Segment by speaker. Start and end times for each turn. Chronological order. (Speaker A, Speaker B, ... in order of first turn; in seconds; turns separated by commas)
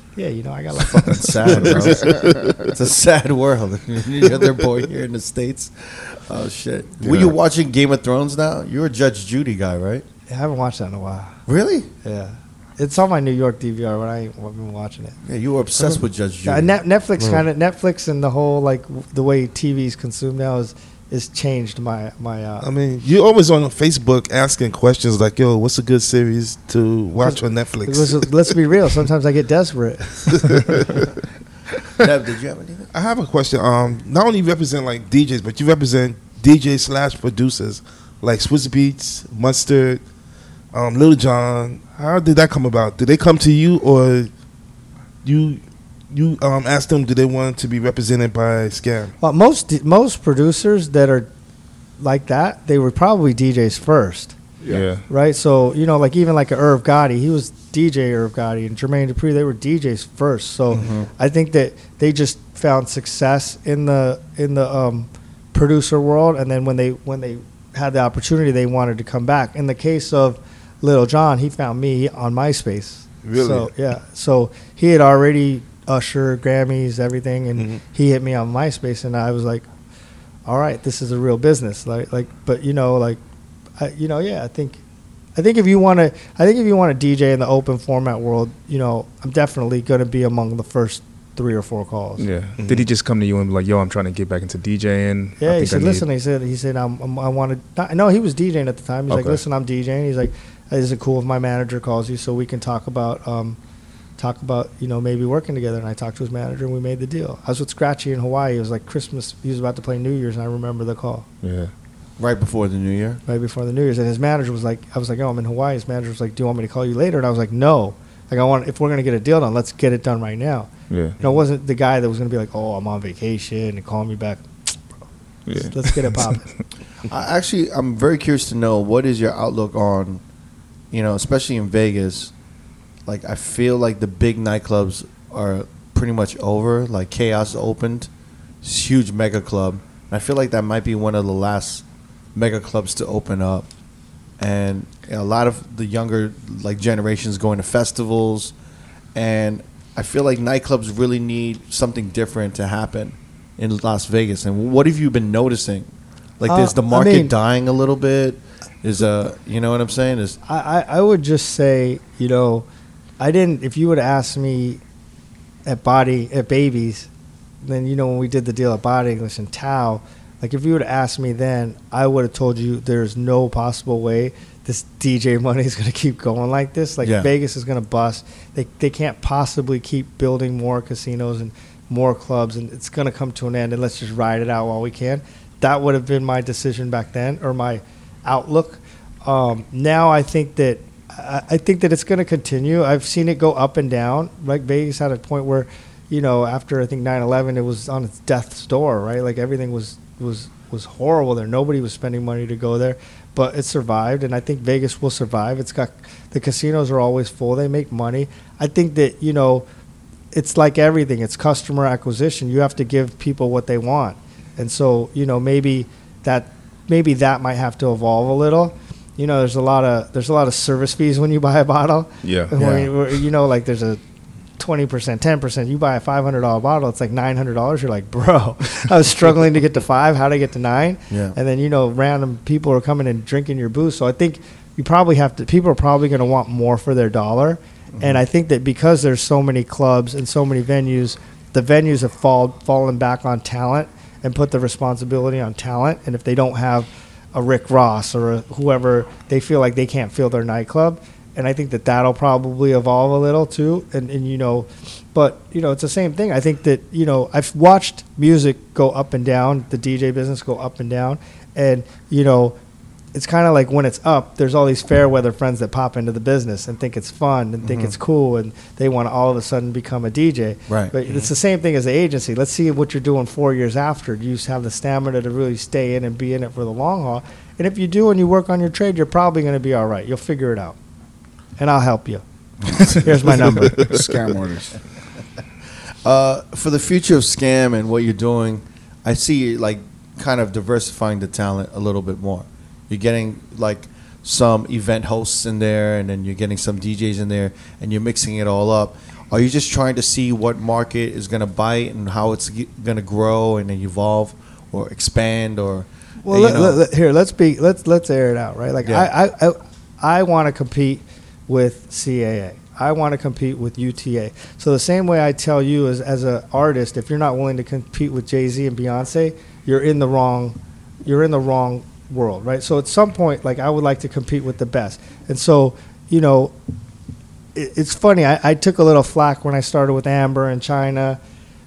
Speaker A: 0.1-2.2, Speaker B: 1.1-10.0, Speaker C: 2.0-2.6, Speaker A: 10.3-11.3, Speaker B: 11.5-11.9, Speaker A: 12.0-15.2, Speaker B: 15.2-16.7, Speaker A: 16.4-22.7, Speaker D: 22.6-28.5, Speaker A: 27.2-30.9, Speaker D: 30.3-31.0, Speaker B: 32.0-32.9, Speaker D: 32.9-40.0, Speaker D: 40.7-44.3, Speaker D: 45.2-49.1, Speaker A: 49.2-51.3, Speaker A: 52.0-54.4, Speaker E: 54.7-55.0, Speaker A: 55.1-79.7, Speaker B: 60.7-61.1, Speaker D: 73.2-73.7, Speaker A: 80.5-83.2, Speaker A: 83.8-84.8, Speaker A: 85.3-92.3, Speaker E: 92.2-96.0, Speaker D: 92.6-92.9, Speaker A: 95.4-103.6, Speaker E: 99.1-99.4, Speaker A: 104.2-111.3, Speaker E: 111.4-111.7, Speaker B: 112.2-113.2, Speaker A: 113.3-124.5, Speaker E: 120.9-121.2, Speaker E: 125.5-126.4, Speaker A: 125.5-126.5, Speaker B: 127.1-130.2, Speaker B: 130.9-132.3, Speaker B: 133.1-138.1, Speaker B: 138.6-141.8, Speaker B: 142.3-143.7, Speaker B: 144.4-148.5, Speaker B: 149.2-160.4, Speaker A: 156.5-157.3, Speaker A: 160.5-162.7, Speaker A: 163.2-164.8, Speaker A: 165.7-167.1, Speaker A: 167.6-209.7, Speaker B: 177.0-177.3, Speaker A: 210.3-224.0, Speaker E: 222.2-222.6, Speaker B: 222.6-222.9, Speaker A: 224.6-262.6, Speaker B: 231.1-231.4, Speaker A: 263.1-280.8, Speaker B: 267.6-267.9, Speaker A: 281.6-282.2, Speaker A: 282.8-284.0, Speaker C: 283.3-284.8, Speaker B: 286.1-306.8, Speaker A: 306.2-326.5, Speaker B: 308.9-309.1, Speaker A: 327.6-331.2